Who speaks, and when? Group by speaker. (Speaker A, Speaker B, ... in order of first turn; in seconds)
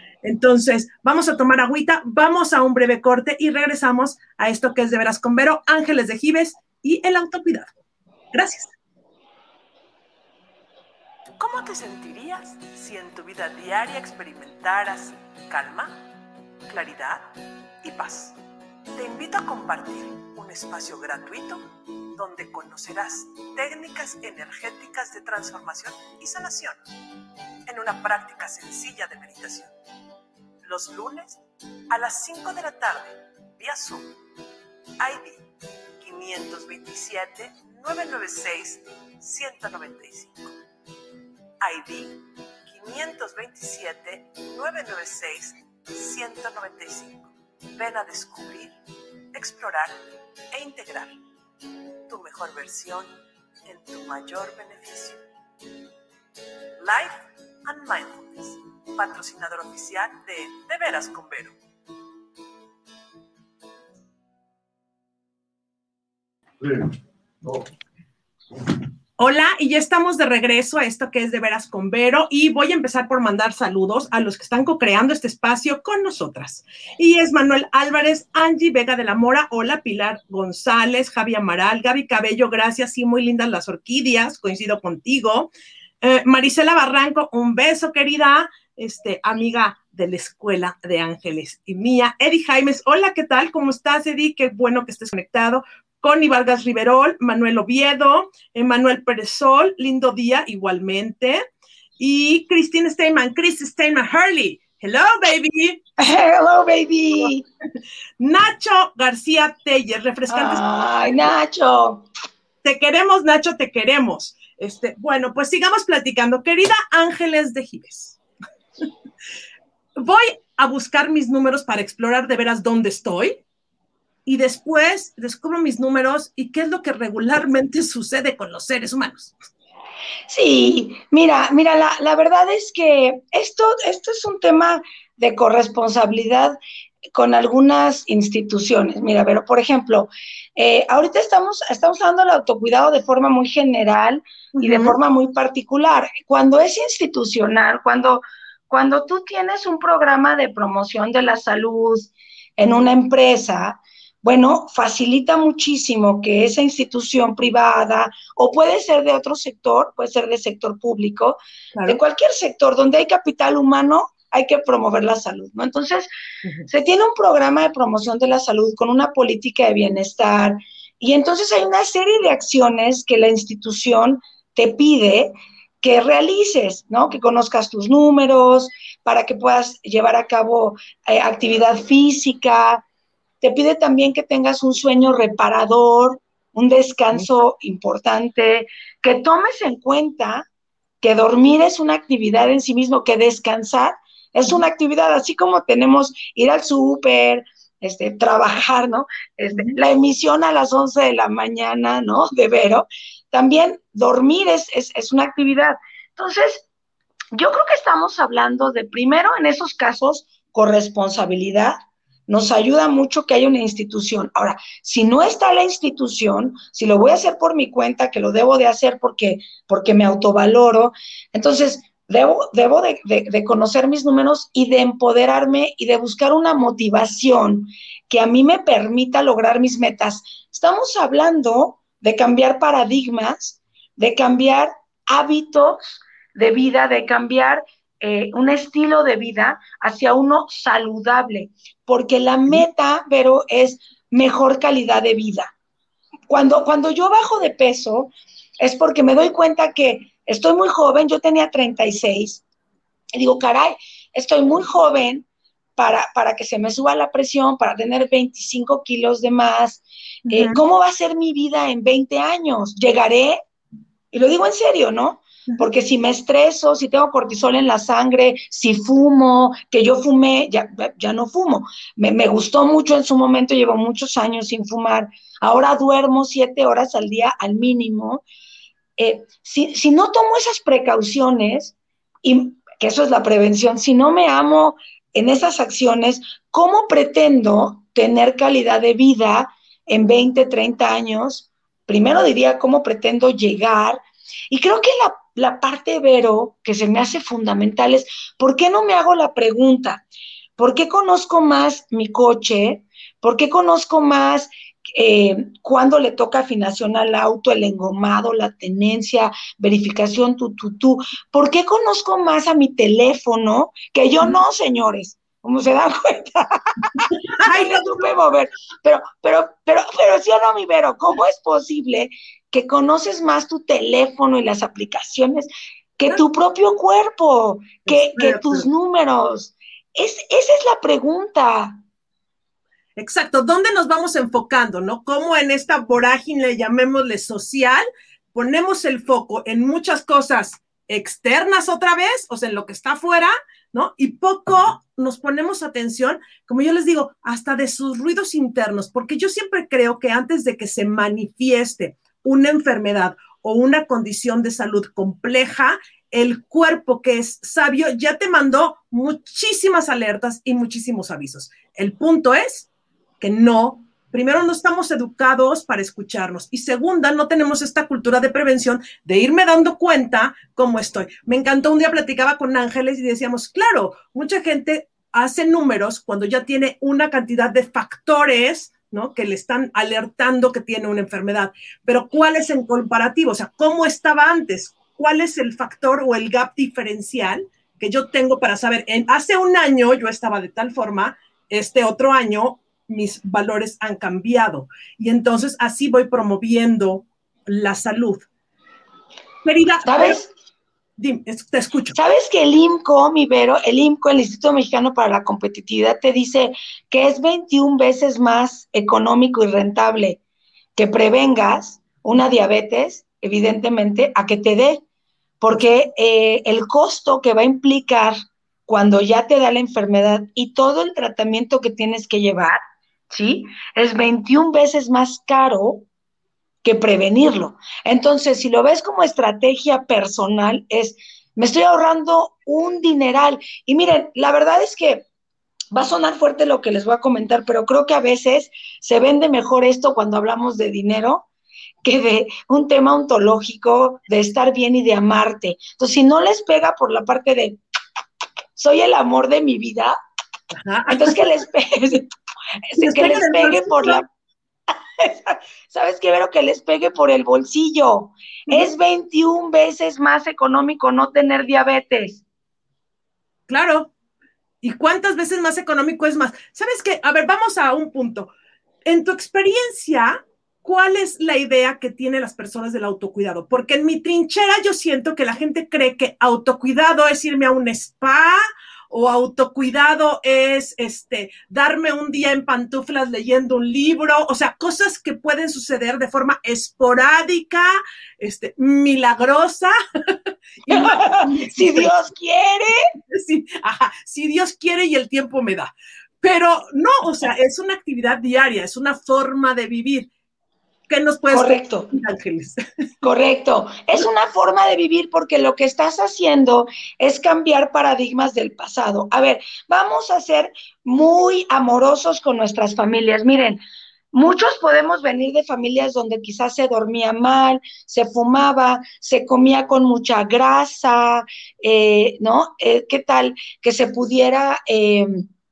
Speaker A: 0.2-7.7, 8.3-8.7, 27.7-29.7, 36.0-40.5, 42.7-43.5, 46.0-47.2, 47.8-48.7, 49.4-49.9, 50.5-51.1, 52.3-52.6, 54.6-55.0, 56.8-57.1, 57.7-61.5, 69.2-85.5, 86.0-101.4, 102.0-105.8, 108.2-110.6, 112.6-118.2, 120.0-123.4, 124.3-129.3, 144.6-145.0, 161.7-162.0, 260.3-260.6, 317.4-318.2, 327.9-328.7, 333.0-337.8, 338.3-362.7, 363.2-398.3, 399.4-400.2, 401.0-402.0, 450.5-451.3, 452.8-454.0, 463.5-463.9, 464.6-468.3, 468.9-478.4, 478.9-491.9, 493.1-500.1, 500.9-502.6
Speaker B: 11.4-15.9, 16.7-17.2, 17.8-18.3, 19.0-21.6, 22.2-26.8, 27.9-28.3, 29.0-29.5, 30.7-31.3, 32.0-33.1, 33.6-34.0, 39.4-39.6, 41.7-42.0, 42.9-45.4, 46.2-46.5, 47.8-48.1, 52.1-53.0, 53.7-55.0
Speaker C: 106.0-107.5, 110.3-112.0, 130.3-136.6, 137.1-166.1, 166.7-182.8, 183.4-190.5, 191.0-206.7, 207.3-245.5, 246.3-252.4, 253.1-255.3, 255.8-263.4, 264.1-278.2, 279.0-294.0, 294.5-300.0, 300.6-331.8, 399.9-400.3, 401.9-410.2, 410.8-414.8, 415.4-422.6, 423.1-425.9, 426.6-435.0, 435.7-441.3, 441.8-447.6, 448.6-450.0, 450.9-452.1, 452.7-454.1, 455.0-462.2, 490.7-492.8, 501.3-501.9, 503.0-513.6, 514.1-525.3